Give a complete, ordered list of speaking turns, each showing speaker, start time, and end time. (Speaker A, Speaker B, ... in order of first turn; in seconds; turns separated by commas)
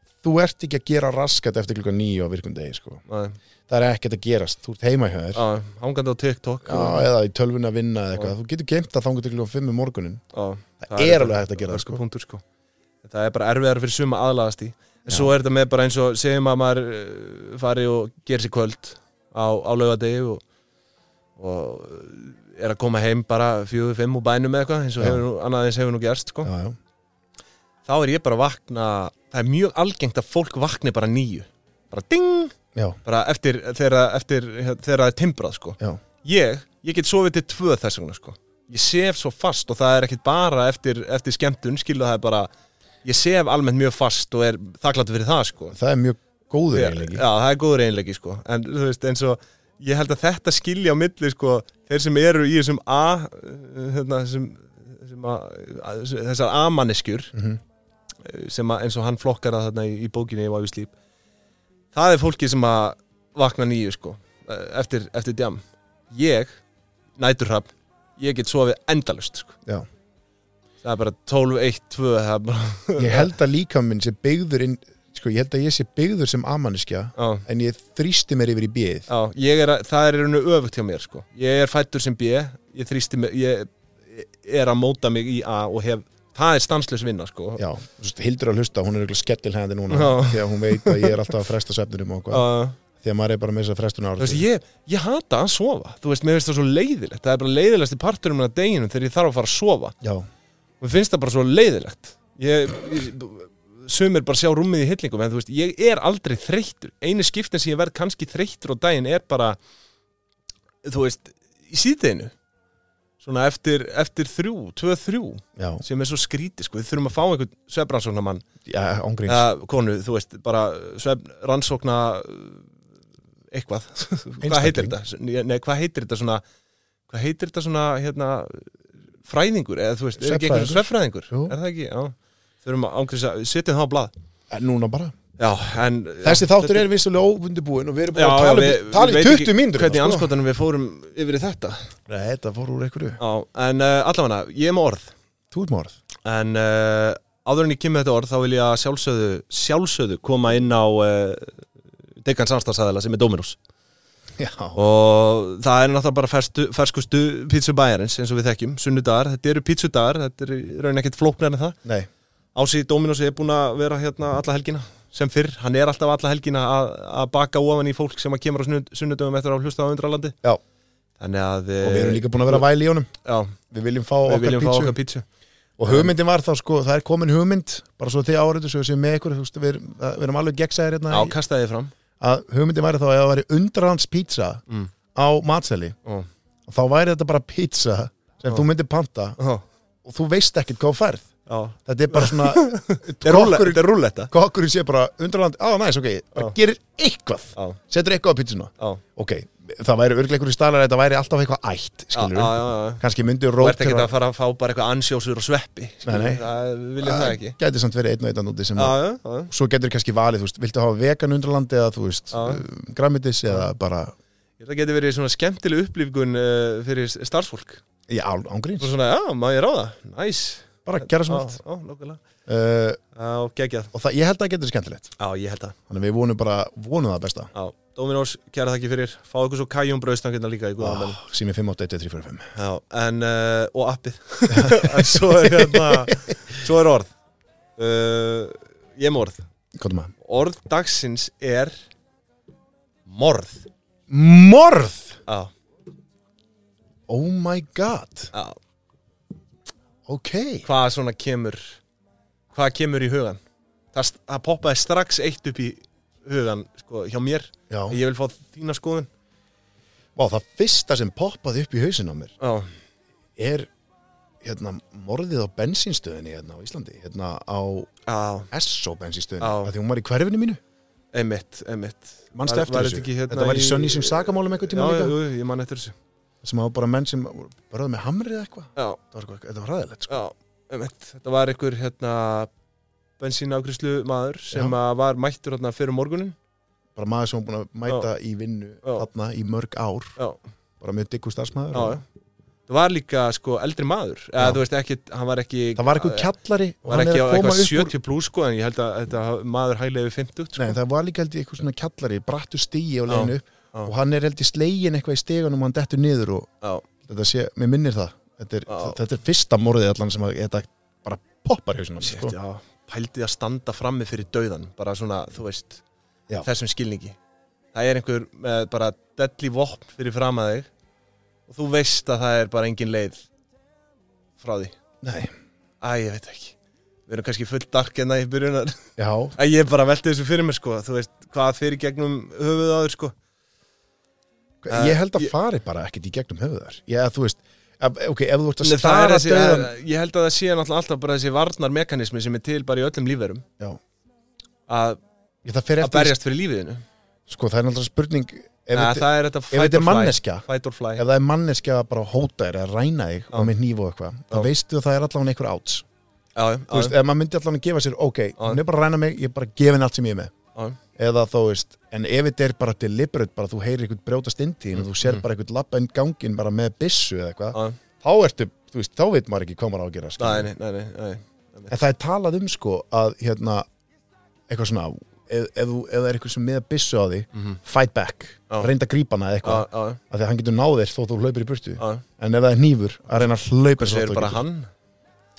Speaker A: 0.2-3.0, Speaker B: 3.1-3.4, Speaker A: 3.7-5.4, Speaker B: 5.3-7.1, Speaker A: 6.6-10.2, Speaker B: 10.3-12.4, Speaker A: 10.8-12.0, Speaker B: 13.0-20.4, Speaker B: 21.4-26.5, Speaker A: 26.4-26.8, Speaker B: 27.8-42.5, Speaker B: 43.0-45.7, Speaker A: 45.7-47.2, Speaker B: 46.7-57.3, Speaker A: 57.3-57.6, Speaker B: 58.2-60.9, Speaker B: 61.9-66.6, Speaker B: 67.2-69.6, Speaker B: 70.8-73.3, Speaker A: 73.0-79.1, Speaker B: 77.2-77.4, Speaker B: 79.1-87.6, Speaker A: 87.6-94.4, Speaker B: 89.9-91.2, Speaker B: 92.3-92.8, Speaker B: 94.2-99.9, Speaker A: 100.0-100.2, Speaker B: 100.8-109.6, Speaker B: 110.8-112.3, Speaker B: 113.2-118.4, Speaker A: 115.6-115.8, Speaker A: 118.7-119.4, Speaker B: 119.2-122.7, Speaker B: 123.5-126.4, Speaker A: 124.4-125.0, Speaker B: 127.1-128.7, Speaker B: 129.2-134.1, Speaker A: 130.2-131.5, Speaker A: 134.5-135.1, Speaker B: 135.4-136.8, Speaker A: 136.2-140.3, Speaker B: 138.1-141.9, Speaker A: 142.1-143.2, Speaker B: 143.2-145.1, Speaker A: 145.5-145.9, Speaker B: 146.2-151.7, Speaker B: 152.2-153.6, Speaker A: 154.4-154.8, Speaker B: 154.7-161.8, Speaker B: 162.5-170.4, Speaker B: 171.2-172.7, Speaker A: 171.8-173.1, Speaker B: 173.2-173.6, Speaker A: 173.7-175.0, Speaker B: 174.2-175.2, Speaker A: 175.8-181.3, Speaker B: 175.9-176.1, Speaker B: 181.1-181.9, Speaker A: 182.2-184.6, Speaker A: 185.1-185.9, Speaker A: 186.7-189.4, Speaker A: 190.0-191.3, Speaker B: 191.5-194.3, Speaker A: 191.8-204.1, Speaker B: 202.1-203.0, Speaker B: 203.6-207.6, Speaker A: 206.1-206.5, Speaker A: 207.0-214.1, Speaker B: 208.8-209.5, Speaker B: 212.3-212.6, Speaker B: 214.6-217.8, Speaker A: 218.1-218.9, Speaker B: 218.8-222.2, Speaker A: 220.8-221.6, Speaker A: 222.4-223.0, Speaker B: 223.1-223.9, Speaker A: 223.9-225.2, Speaker B: 225.2-225.8, Speaker A: 225.9-227.5, Speaker B: 227.5-231.2, Speaker A: 230.8-232.5, Speaker B: 232.5-237.1, Speaker A: 234.5-236.4, Speaker B: 237.8-239.4, Speaker A: 239.8-240.1, Speaker B: 240.2-241.8, Speaker B: 243.1-243.7, Speaker A: 244.1-245.2, Speaker B: 245.3-245.5, Speaker A: 247.1-248.3, Speaker A: 250.1-250.7, Speaker B: 250.6-251.8, Speaker B: 252.5-253.4, Speaker B: 253.9-259.1, Speaker A: 257.7-258.0, Speaker A: 260.1-262.3, Speaker B: 262.4-262.7, Speaker A: 263.4-263.7, Speaker A: 264.4-267.9, Speaker B: 268.1-268.5, Speaker A: 268.5-270.6, Speaker B: 269.4-269.7, Speaker B: 271.1-275.9, Speaker A: 272.3-275.2, Speaker A: 276.4-280.2, Speaker B: 280.1-282.5, Speaker B: 283.2-286.4, Speaker A: 286.9-290.2, Speaker A: 290.8-292.0, Speaker B: 291.7-292.0, Speaker B: 292.7-296.3, Speaker A: 295.8-297.9, Speaker B: 296.9-300.8, Speaker A: 300.6-306.5, Speaker B: 303.1-303.9, Speaker A: 307.0-312.3, Speaker B: 308.7-308.9, Speaker B: 312.0-315.8, Speaker B: 316.4-317.2, Speaker B: 317.7-320.7, Speaker B: 321.5-323.2, Speaker B: 324.4-324.7, Speaker A: 325.0-325.3, Speaker B: 325.8-326.6, Speaker B: 327.1-333.1, Speaker A: 329.0-329.3, Speaker A: 334.6-339.7, Speaker B: 334.7-335.3, Speaker B: 338.6-343.4, Speaker B: 344.7-345.0, Speaker A: 345.4-346.1, Speaker B: 345.8-346.8, Speaker A: 347.3-355.9, Speaker B: 348.7-351.0, Speaker B: 356.4-356.9, Speaker A: 356.7-360.3, Speaker A: 360.9-370.5, Speaker B: 364.8-365.2, Speaker B: 370.2-371.7, Speaker A: 371.7-373.6, Speaker A: 374.5-384.4, Speaker B: 379.4-380.0, Speaker B: 381.8-382.0, Speaker B: 383.8-384.7